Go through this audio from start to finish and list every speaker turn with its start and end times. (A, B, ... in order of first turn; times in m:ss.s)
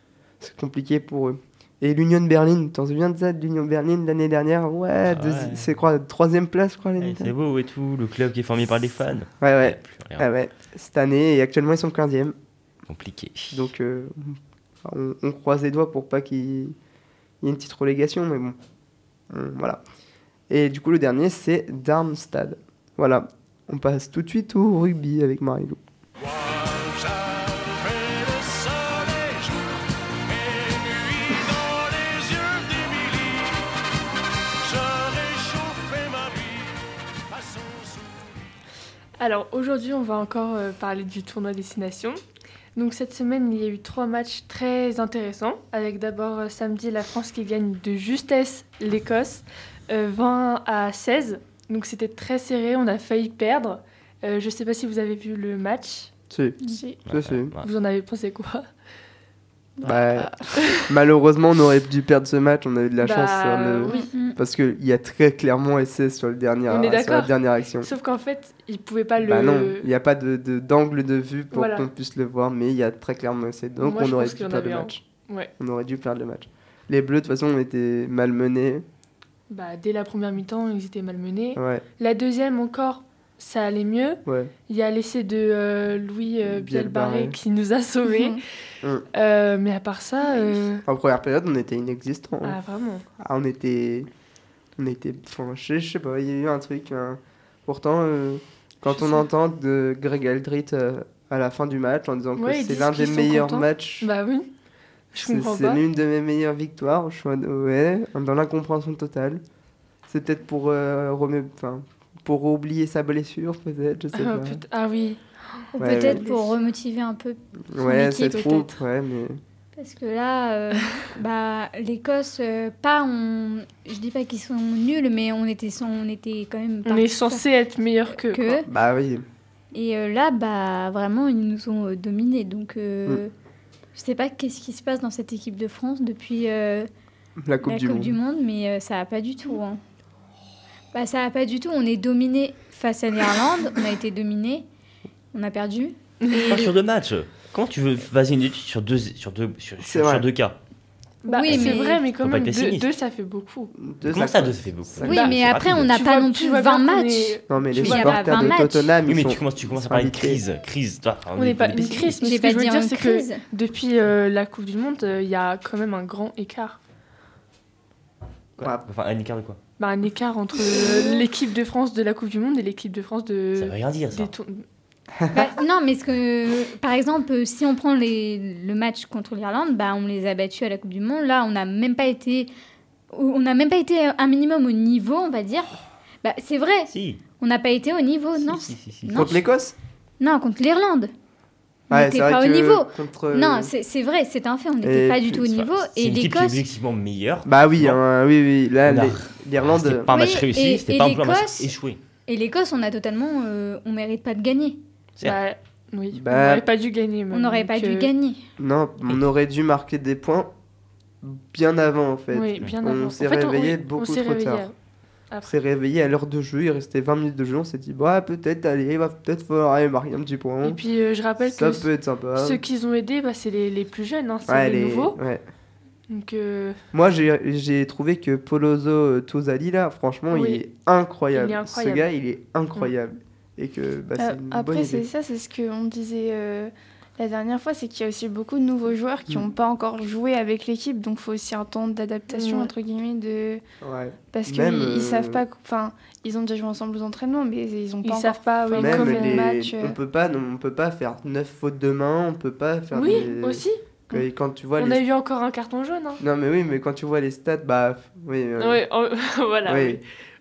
0:00.4-0:07.3 A
0:05.1-0:05.7 B
0:07.0-0:10.3 B
0:09.4-0:12.4 A
0:12.9-0:13.7 B
0:13.5-0:16.8 A
0:17.4-0:18.6 A
0:19.3-0:19.8 A
0:20.5-0:25.8 A
0:32.1-0:32.8 B
0:35.1-0:35.9 B
0:39.2-0:42.2 C
0:42.8-0:56.1 C
0:56.3-0:57.5 A
0:56.7-0:57.0 D
0:57.1-0:57.7 B
0:57.6-0:58.7 C
0:59.8-1:07.9 A
0:59.9-1:01.0 C
1:03.0-1:04.1 C
1:03.9-1:04.4 E
1:06.7-1:09.9 C
1:09.2-1:15.0 A
1:11.5-1:11.9 C
1:13.8-1:15.5 C
1:15.6-1:18.8 A
1:19.5-1:28.4 C
1:21.6-1:21.8 A
1:24.3-1:24.5 A
1:26.4-1:27.4 A
1:29.1-1:30.8 C
1:30.8-1:32.6 A
1:32.4-1:33.1 C
1:33.2-1:34.1 A
1:34.8-1:44.1 A
1:38.9-1:39.2 C
1:42.4-1:44.5 C
1:45.1-1:45.8 C
1:45.2-1:49.4 A
1:50.1-1:54.6 A
1:54.1-1:56.5 C
1:55.7-1:58.8 E
1:55.8-1:56.3 A
1:57.7-1:59.4 A
1:59.8-2:07.4 E
2:06.8-2:08.6 C
2:08.1-2:08.7 E
2:08.7-2:09.2 A
2:09.7-2:13.3 E
2:14.0-2:16.9 E
2:17.4-2:18.2 A
2:17.6-2:19.8 E
2:20.9-2:24.7 E
2:25.3-2:26.7 E
2:26.5-2:30.6 B
2:29.8-2:30.3 A
2:31.2-2:33.7 C
2:31.3-2:32.0 E
2:31.5-2:32.9 B
2:33.8-2:35.2 A
2:34.0-2:35.9 B
2:35.1-2:38.9 E
2:35.1-2:38.4 C
2:37.5-2:40.4 A
2:39.1-2:42.2 B
2:41.4-2:46.8 C
2:42.2-2:43.4 E
2:48.6-2:49.6 B
2:49.8-2:54.6 C
2:53.6-2:54.3 B
2:55.2-2:55.5 A
2:55.3-3:02.5 E
3:03.1-3:05.7 E
3:06.2-3:09.4 E
3:06.9-3:07.2 B
3:08.4-3:09.3 B
3:09.1-3:09.8 A
3:10.2-3:11.1 E
3:11.9-3:16.6 E
3:11.9-3:13.7 A
3:14.8-3:15.5 A
3:15.4-3:18.0 B
3:17.4-3:20.1 A
3:18.8-3:22.0 B
3:20.1-3:21.7 E
3:22.3-3:24.8 E
3:25.2-3:28.1 C
3:26.1-3:26.7 A
3:27.3-3:28.5 E
3:28.6-3:30.5 A
3:31.2-3:34.7 A
3:32.3-3:34.7 C
3:35.4-3:40.8 A
3:40.6-3:45.2 C
3:41.4-3:42.6 A
3:44.5-3:45.4 A
3:46.1-3:46.8 C
3:46.9-3:55.1 A
3:50.3-3:50.6 C
3:51.3-3:52.1 C
3:54.2-4:03.6 D
4:02.3-4:02.7 C
4:03.8-4:05.4 A
4:04.3-4:10.0 D
4:08.0-4:09.6 C
4:08.8-4:15.0 A
4:12.9-4:13.8 C
4:14.8-4:16.2 C
4:16.2-4:18.8 A
4:18.6-4:20.0 C
4:19.6-4:20.0 A